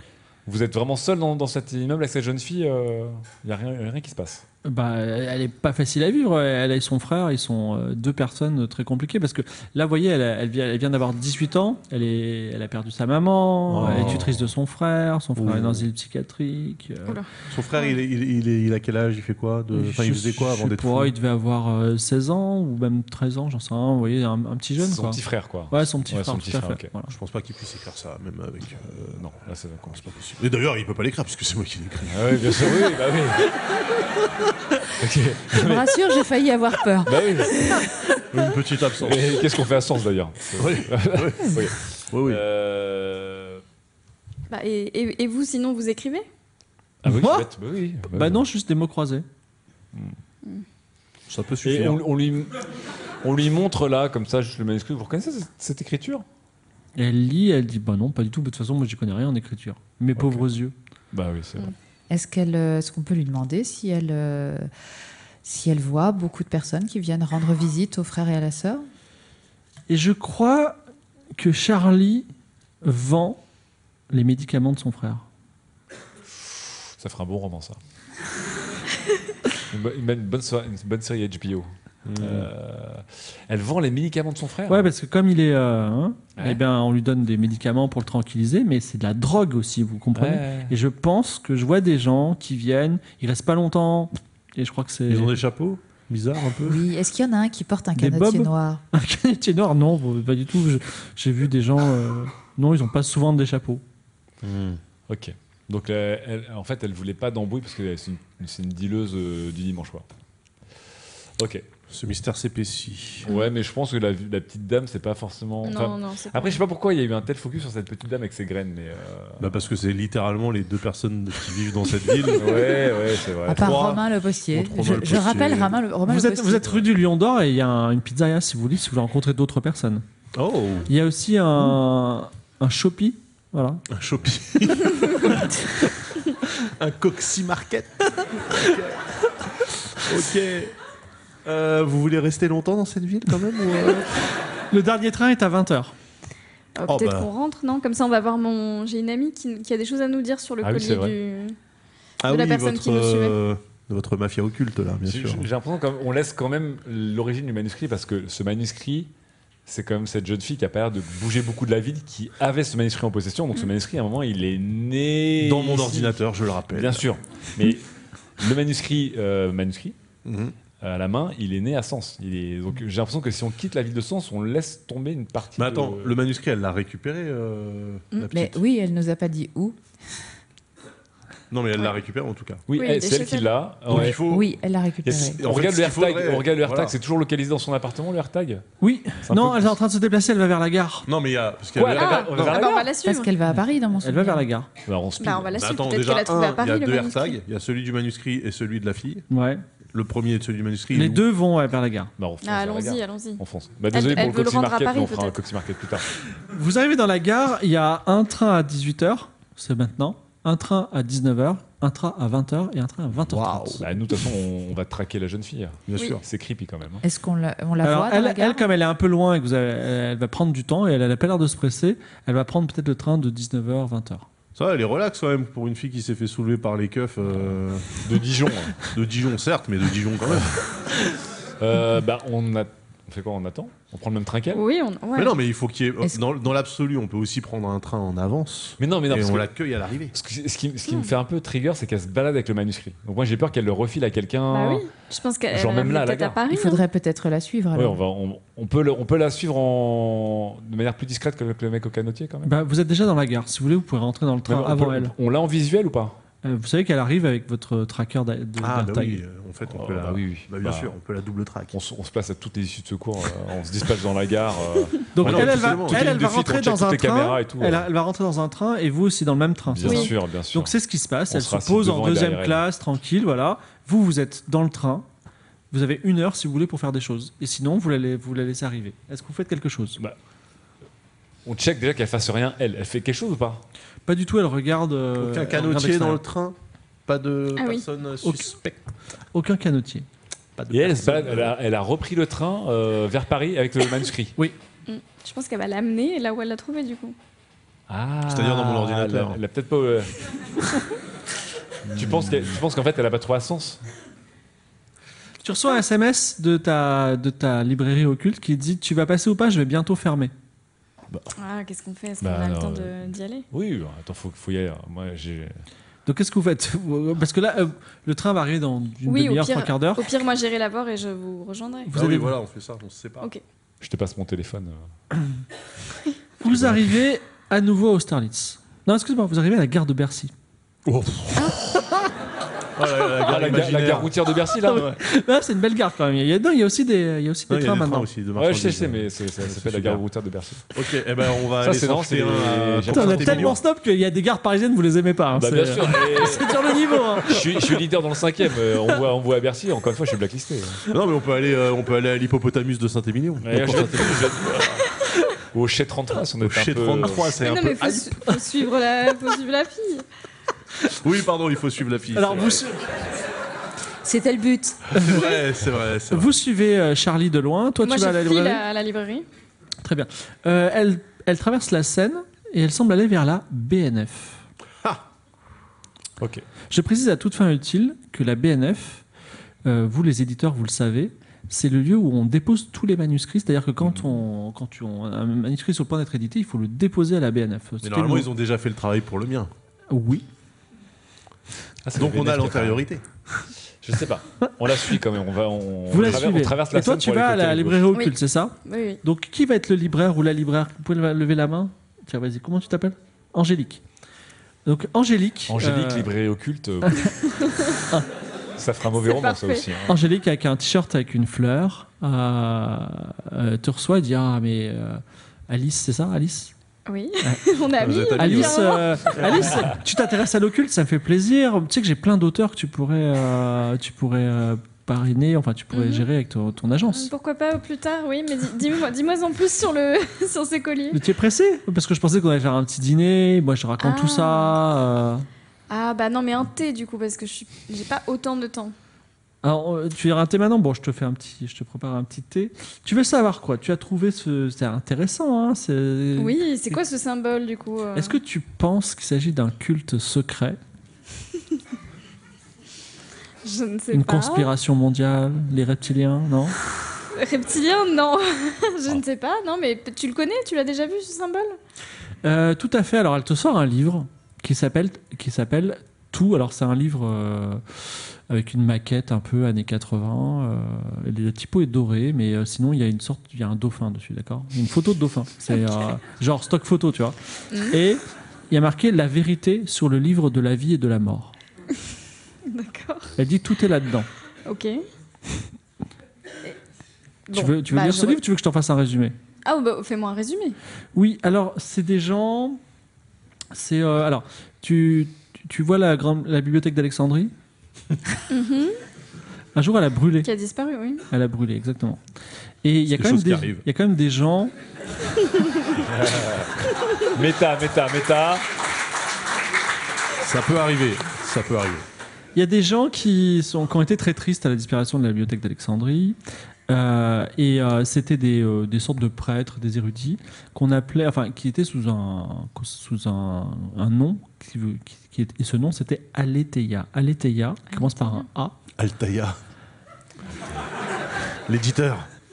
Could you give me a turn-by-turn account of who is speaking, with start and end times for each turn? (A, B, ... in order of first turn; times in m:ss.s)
0:00.5-0:04.4 A
0:04.6-0:17.2 B
0:13.7-0:14.4 C
0:13.8-0:14.3 A
0:15.4-0:15.9 C
0:17.5-0:21.1 C
0:19.7-0:27.1 B
0:24.8-0:26.9 A
0:27.1-0:29.3 C
0:29.0-0:30.1 A
0:29.9-0:32.9 C
0:32.1-0:33.6 A
0:34.8-0:36.0 A
0:35.5-0:37.3 D
0:37.0-0:37.7 A
0:38.3-0:39.4 C
0:39.0-0:43.6 A
0:40.6-0:42.4 C
0:44.5-0:46.3 E
0:47.0-0:48.5 A
0:47.0-0:47.5 B
0:48.1-0:49.3 B
0:51.3-0:52.0 C
0:51.6-0:52.6 A
0:53.2-0:56.2 A
0:57.0-1:00.7 B
1:00.2-1:00.4 A
1:01.1-1:01.7 A
1:02.1-1:04.7 D
1:05.4-1:08.9 D
1:09.9-1:10.8 B
1:11.4-1:12.3 B
1:12.8-1:13.4 B
1:14.1-1:15.2 B
1:17.0-1:17.8 A
1:19.7-1:24.9 A
1:22.1-1:22.5 C
1:24.7-1:35.4 B
1:26.4-1:26.6 A
1:30.2-1:30.8 A
1:35.1-1:36.9 C
1:36.6-1:38.8 D
1:38.0-1:43.8 B
1:44.4-1:44.8 C
1:45.1-1:50.1 A
1:51.4-1:51.7 A
1:51.9-1:53.3 C
1:53.2-1:59.5 A
1:55.6-1:56.6 E
1:59.4-2:02.8 C
2:02.3-2:03.9 A
2:03.5-2:06.8 D
2:03.5-2:05.8 C
2:06.1-2:10.0 B
2:10.4-2:10.9 C
2:10.9-2:13.8 B
2:13.9-2:15.5 C
2:16.6-2:19.0 C
2:19.9-2:20.8 C
2:21.4-2:24.2 C
2:24.7-2:25.9 B
2:26.8-2:31.6 E
2:26.9-2:27.3 C
2:30.6-2:31.2 A
2:32.2-2:35.5 C
2:32.3-2:33.4 E
2:35.0-2:39.1 A
2:39.7-2:46.2 A
2:45.4-2:47.1 C
2:46.7-2:47.8 A
2:48.4-2:50.0 A
2:50.2-2:50.6 C
2:50.8-2:56.2 A
2:55.6-2:58.6 C
2:58.3-2:59.8 D
3:01.5-3:02.6 C
3:02.7-3:04.2 A
3:02.8-3:03.5 E
3:03.9-3:04.5 C
3:03.9-3:05.4 D
3:05.0-3:08.6 A
3:05.4-3:07.0 C
3:08.8-3:11.1 B
3:09.2-3:09.7 A
3:11.1-3:12.6 C
3:11.8-3:12.9 A
3:11.9-3:13.4 E
3:13.0-3:14.4 D
3:14.0-3:14.7 B
3:14.8-3:15.6 A
3:15.2-3:17.4 E
3:15.5-3:19.3 C
3:19.3-3:19.6 B
3:19.9-3:21.3 C
3:20.9-3:22.1 B
3:22.2-3:26.1 A
3:22.4-3:25.4 E
3:26.5-3:33.9 B
3:33.1-3:33.9 C
3:33.8-3:37.0 A
3:35.9-3:36.2 C
3:37.0-3:38.7 D
3:37.8-3:44.3 B
3:44.6-3:47.9 C
3:47.9-3:48.8 A
3:48.8-3:50.6 C
3:50.3-3:50.6 A
3:51.6-3:54.6 A
3:54.5-3:55.4 E
3:55.2-4:00.2 C
3:58.8-3:59.5 A
4:00.1-4:04.9 A
4:00.9-4:01.1 E
4:04.5-4:06.8 E
4:05.5-4:06.4 A
4:06.5-4:08.0 D
4:07.7-4:12.6 A
4:12.4-4:15.1 B
4:14.5-4:16.2 A
4:16.4-4:19.2 B
4:18.6-4:21.8 C
4:19.7-4:20.9 A
4:21.7-4:27.9 A
4:25.1-4:35.1 B
4:25.2-4:26.2 C
4:29.7-4:30.8 A
4:29.8-4:30.1 E
4:31.3-4:32.6 A
4:35.7-4:40.0 B
4:41.4-4:43.6 A
4:44.1-4:46.2 B
4:45.2-4:46.6 C
4:47.1-4:48.8 C
4:47.6-4:47.8 E
4:48.2-4:48.5 B
4:49.3-4:50.1 B
4:50.6-4:51.6 C
4:50.7-4:54.4 A
4:54.9-4:57.2 E
4:57.9-5:00.2 A
4:58.3-4:59.4 C
5:01.9-5:03.8 A
5:02.0-5:02.4 C
5:05.4-5:10.3 B
5:11.4-5:13.5 E
5:12.2-5:15.6 A
5:16.1-5:20.0 B
5:19.1-5:22.0 E
5:21.9-5:22.4 B
5:21.9-5:23.3 C
5:23.8-5:24.8 A
5:26.4-5:30.3 B
5:26.5-5:26.9 A
5:30.9-5:31.6 C
5:32.8-5:35.0 C
5:33.2-5:34.9 A
5:34.6-5:38.1 B
5:37.5-5:40.0 C
5:38.4-5:40.7 A
5:40.7-5:43.6 C
5:41.6-5:43.6 A
5:42.9-5:47.4 B
5:45.3-5:46.7 A
5:47.2-5:50.8 A
5:50.9-5:54.4 C
5:53.4-5:54.9 A
5:55.5-5:57.4 A
5:56.4-5:58.2 C
5:57.4-6:00.0 E
6:00.9-6:02.6 C
6:02.1-6:02.8 B
6:04.0-6:05.0 D
6:04.9-6:06.3 C
6:06.1-6:08.6 B
6:07.8-6:09.3 E
6:09.8-6:14.4 B
6:16.2-6:16.4 A
6:16.7-6:19.0 B
6:19.6-6:28.3 B
6:27.8-6:29.5 C
6:29.9-6:30.3 B
6:31.8-6:32.8 A
6:32.0-6:33.0 C
6:33.8-6:37.9 A
6:35.9-6:43.8 B
6:37.9-6:39.0 E
6:44.6-6:46.1 B
6:45.5-6:47.2 A
6:47.3-6:47.8 E
6:48.6-6:50.0 A
6:49.1-6:49.7 E
6:49.9-6:56.5 B
6:56.9-6:59.5 E
6:57.8-6:59.6 C
6:58.2-7:07.1 B
7:05.7-7:06.1 E
7:06.9-7:11.0 E
7:10.9-7:15.3 B
7:13.8-7:14.6 E
7:15.7-7:18.8 E
7:19.4-7:26.7 B
7:26.2-7:28.2 E
7:28.0-7:30.6 B
7:33.4-7:34.5 E
7:33.9-7:36.6 B
7:37.1-7:41.6 E
7:42.2-7:57.2 B
7:57.5-7:57.8 E
7:57.7-8:01.4 B
8:02.5-8:03.1 E
8:03.2-8:04.1 B
8:04.5-8:04.8 E
8:07.3-8:08.2 E
8:07.3-8:09.2 B
8:09.4-8:10.6 E
8:11.0-8:12.6 B
8:13.5-8:17.3 B
8:18.3-8:18.8 E
8:19.6-8:20.3 B
8:20.2-8:21.0 E
8:21.1-8:22.0 B
8:22.6-8:24.5 B
8:22.9-8:23.7 C
8:25.8-8:28.4 A
8:30.2-8:31.8 C
8:32.4-8:36.2 B
8:36.7-8:48.6 B
8:47.7-8:48.3 E
8:48.8-8:49.4 C
8:51.5-8:52.1 C